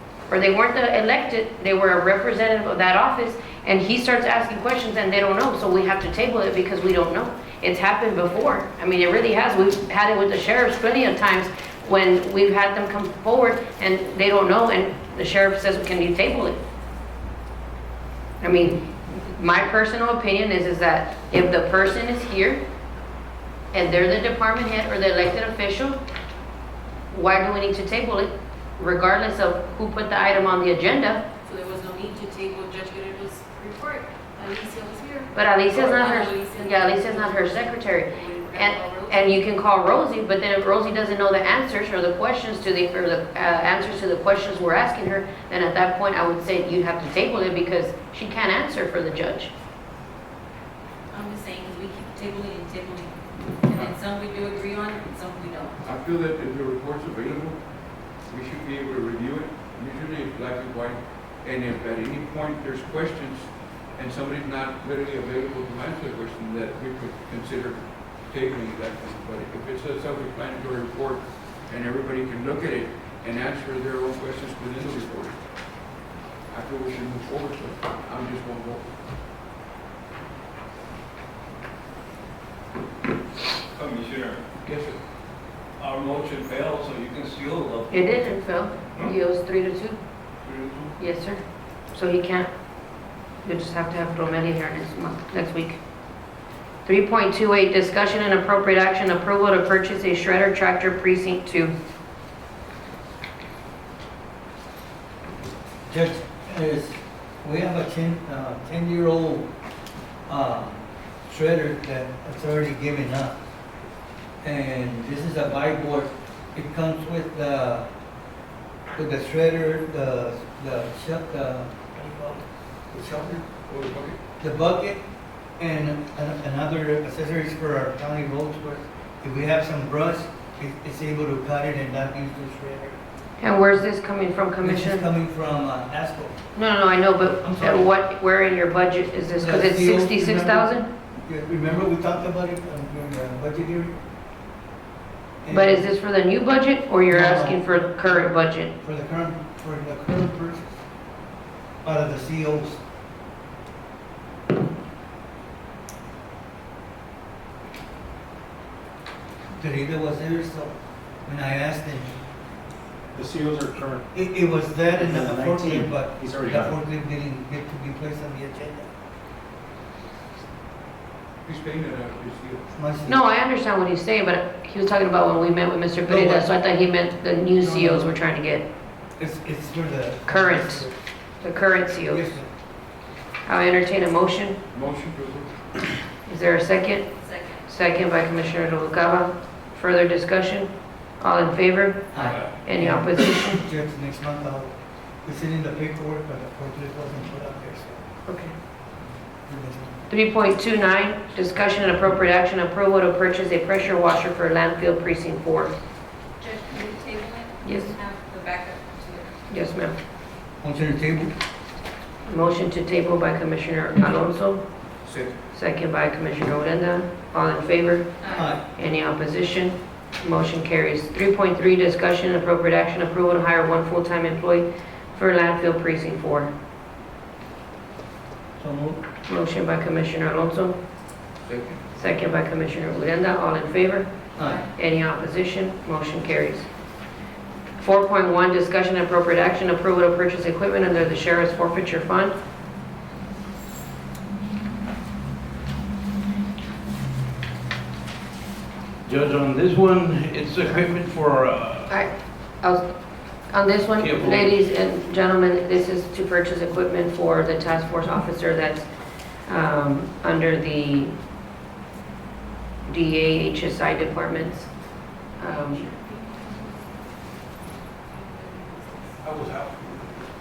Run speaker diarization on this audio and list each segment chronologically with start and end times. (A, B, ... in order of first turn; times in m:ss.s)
0:00.3-0:16.6 A
0:18.4-0:22.6 A
0:23.7-0:26.0 A
0:27.1-0:31.2 A
0:31.4-0:39.2 B
0:35.3-0:49.5 A
0:51.1-0:55.8 B
0:55.8-0:57.6 C
0:58.2-1:15.4 C
1:16.5-1:18.9 C
1:23.8-1:24.4 D
1:24.6-1:25.0 C
1:25.8-1:27.9 D
1:27.9-1:30.0 A
1:30.5-1:30.9 D
1:31.0-1:31.4 A
1:31.9-1:32.5 A
1:33.4-1:35.8 A
1:36.8-1:41.7 A
1:45.9-1:49.5 E
1:50.3-1:53.4 E
1:54.4-1:57.9 E
1:58.9-2:03.5 E
2:03.7-2:04.2 C
2:04.4-2:05.0 E
2:05.6-2:13.0 E
2:13.4-2:15.0 A
2:14.6-2:16.4 E
2:16.6-2:20.9 A
2:17.4-2:17.9 E
2:19.4-2:20.7 E
2:21.2-2:24.0 E
2:25.4-2:25.9 E
2:25.5-2:28.7 A
2:27.1-2:30.8 E
2:31.8-2:32.8 E
2:39.6-2:42.2 E
2:43.2-2:44.0 F
2:44.1-2:48.9 E
2:45.0-2:46.8 F
2:51.4-2:52.6 C
2:52.7-2:53.2 E
2:53.1-2:58.6 A
2:56.1-2:56.5 E
2:57.6-2:58.1 E
2:59.2-3:00.9 E
3:00.3-3:00.9 A
3:01.4-3:02.2 A
3:02.0-3:02.5 E
3:03.5-3:04.6 A
3:04.7-3:05.5 C
3:06.2-3:07.1 A
3:07.2-3:07.7 B
3:07.7-3:13.6 A
3:12.1-3:18.0 E
3:12.2-3:12.4 C
3:18.3-3:18.5 A
3:19.5-3:20.0 E
3:20.1-3:25.7 A
3:26.4-3:29.4 B
3:27.6-3:27.9 A
3:29.5-3:29.9 A
3:30.6-3:31.3 E
3:32.3-3:34.6 A
3:35.0-3:35.3 C
3:35.5-3:46.5 A
3:38.2-3:38.5 B
3:38.3-3:38.6 E
3:48.6-3:49.0 E
3:49.3-3:50.8 A
3:51.4-3:51.8 C
3:52.0-3:54.1 A
3:54.4-3:54.6 E
3:54.6-3:56.7 A
3:57.8-4:02.3 A
4:09.0-4:11.9 G
4:11.9-4:12.9 A
4:13.5-4:18.9 A
4:14.0-4:14.5 G
4:19.5-4:21.1 A
4:22.9-4:24.7 A
4:25.4-4:25.9 A
4:25.4-4:26.9 B
4:28.0-4:29.2 B
4:29.2-4:30.2 C